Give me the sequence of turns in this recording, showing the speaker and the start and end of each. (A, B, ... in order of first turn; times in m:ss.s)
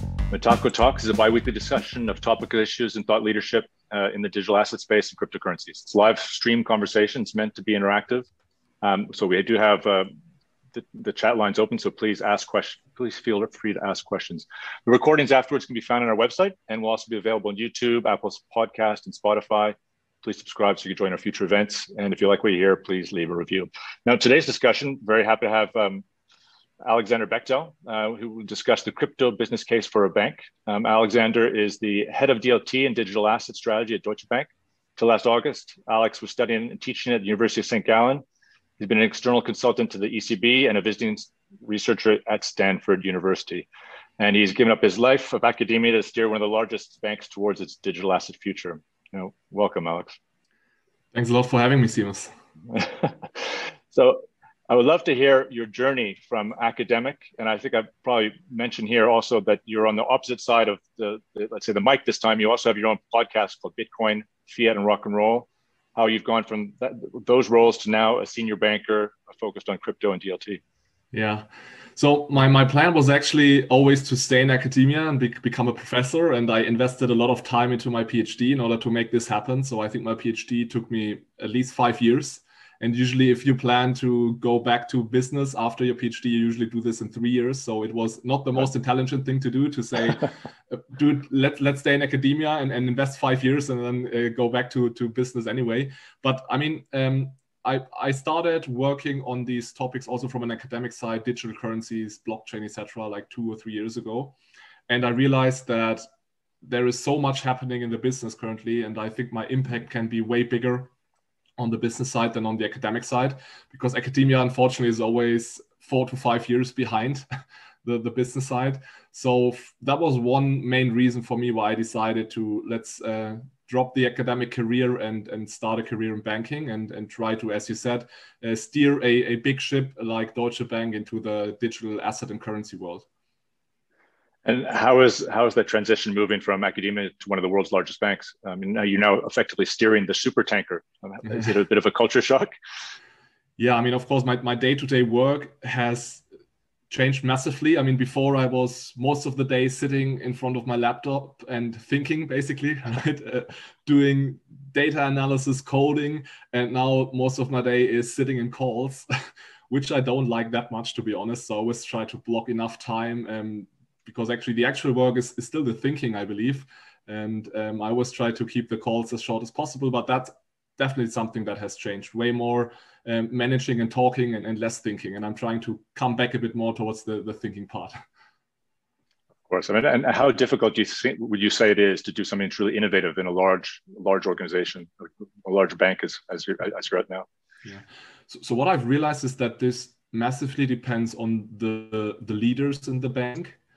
0:00.3-0:08.3 A
0:08.8-0:10.1 A
0:10.7-0:26.0 A
0:26.8-0:38.2 A
0:38.8-0:43.7 A
0:44.2-0:50.2 A
0:51.1-0:52.3 B
0:52.7-1:10.6 A
1:11.1-1:44.4 B
1:44.9-1:46.0 B
1:46.6-1:50.9 B
1:51.6-1:57.3 B
1:57.8-2:13.1 B
2:14.4-2:22.5 A
2:23.6-2:26.2 B
2:26.9-2:39.1 B
2:39.7-2:58.0 B
2:59.5-3:07.3 A
3:07.6-3:13.6 B